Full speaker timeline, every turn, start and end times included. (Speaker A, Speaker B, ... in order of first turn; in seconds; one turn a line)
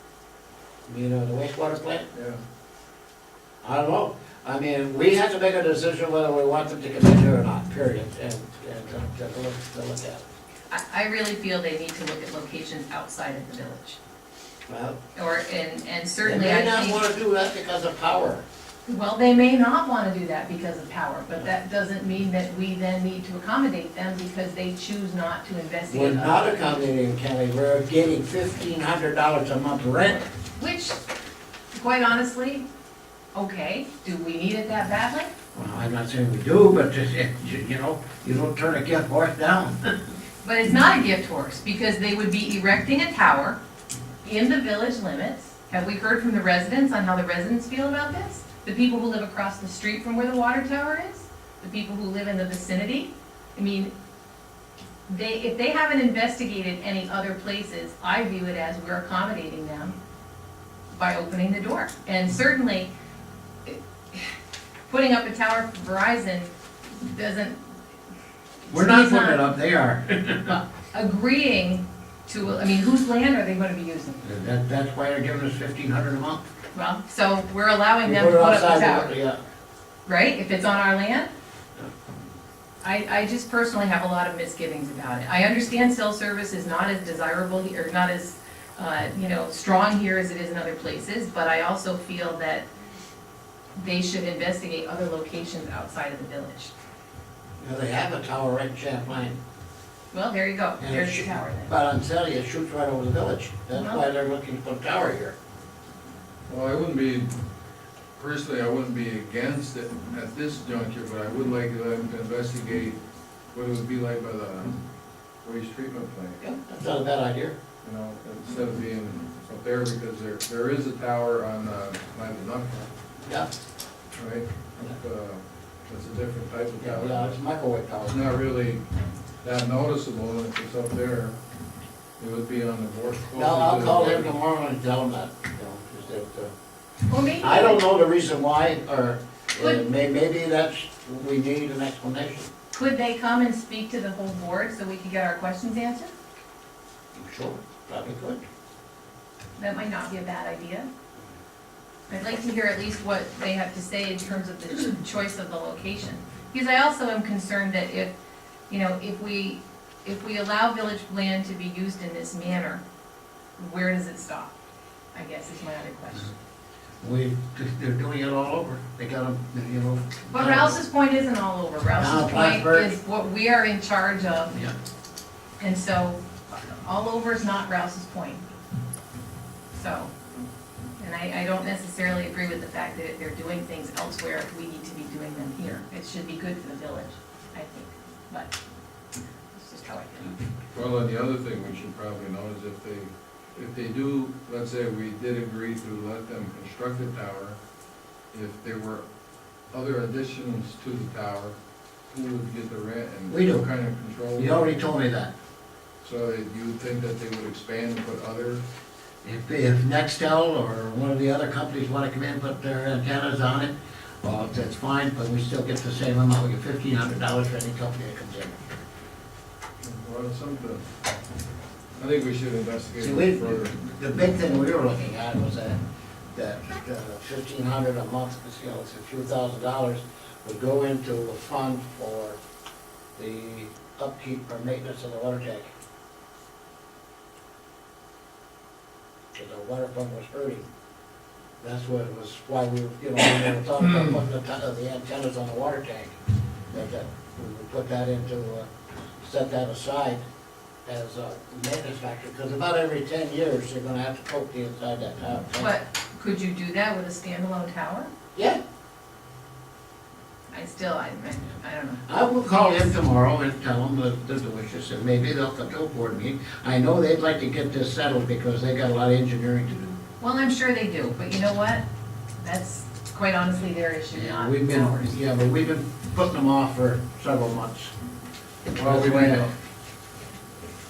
Speaker A: 0.9-2.1
Speaker A: 3.6-10.2
Speaker B: 10.7-14.0
Speaker A: 14.7-15.0
Speaker B: 15.2-17.0
Speaker A: 16.2-18.4
Speaker B: 18.9-26.7
Speaker A: 25.9-30.3
Speaker B: 30.6-31.0
Speaker B: 31.7-32.7
Speaker B: 33.4-35.3
Speaker A: 35.5-40.0
Speaker B: 40.4-43.6
Speaker B: 44.2-53.9
Speaker B: 55.1-60.0
Speaker B: 60.9-62.9
Speaker B: 63.6-64.4
Speaker B: 64.9-67.6
Speaker A: 68.7-70.6
Speaker B: 68.7-69.4
Speaker B: 70.9-74.2
Speaker A: 74.2-76.5
Speaker B: 76.7-79.2
Speaker A: 78.0-79.4
Speaker B: 80.1-81.3
Speaker B: 82.8-92.7
Speaker B: 93.8-96.7
Speaker A: 97.6-99.4
Speaker B: 100.1-101.7
Speaker A: 100.8-105.4
Speaker B: 103.7-104.0
Speaker C: 106.5-107.3
Speaker C: 108.2-113.0
Speaker C: 113.5-114.7
Speaker C: 115.4-116.4
Speaker A: 116.4-117.6
Speaker C: 117.8-122.9
Speaker C: 124.2-127.4
Speaker A: 126.8-128.3
Speaker C: 128.1-128.8
Speaker C: 129.4-131.4
Speaker C: 132.2-134.3
Speaker A: 133.3-136.5
Speaker B: 137.1-137.8
Speaker A: 137.4-142.5
Speaker B: 142.7-146.1
Speaker A: 147.1-148.4
Speaker B: 149.6-150.9
Speaker B: 152.1-158.1
Speaker B: 158.7-162.8
Speaker B: 163.6-164.5
Speaker B: 165.1-166.3
Speaker A: 167.0-170.8
Speaker B: 170.3-174.6
Speaker A: 172.0-172.9
Speaker B: 175.6-178.4
Speaker B: 179.7-180.1
Speaker B: 181.0-188.5
Speaker B: 189.5-190.4
Speaker C: 190.7-197.6
Speaker C: 198.3-199.0
Speaker C: 199.7-201.6
Speaker C: 202.1-204.8
Speaker A: 203.3-203.7
Speaker A: 204.4-205.3
Speaker C: 206.0-208.6
Speaker A: 209.2-218.6
Speaker C: 219.8-220.8
Speaker C: 222.0-223.7
Speaker A: 223.0-225.8
Speaker A: 226.3-232.4
Speaker A: 233.2-235.7
Speaker A: 239.3-240.7
Speaker A: 241.6-246.2
Speaker A: 246.7-248.7
Speaker A: 249.2-250.2
Speaker A: 250.8-255.7
Speaker B: 255.6-258.1
Speaker A: 258.4-258.6
Speaker B: 260.5-262.0
Speaker A: 262.1-270.0
Speaker B: 270.2-271.9
Speaker B: 272.4-275.1
Speaker A: 274.1-277.9
Speaker A: 278.7-279.5
Speaker C: 278.7-279.5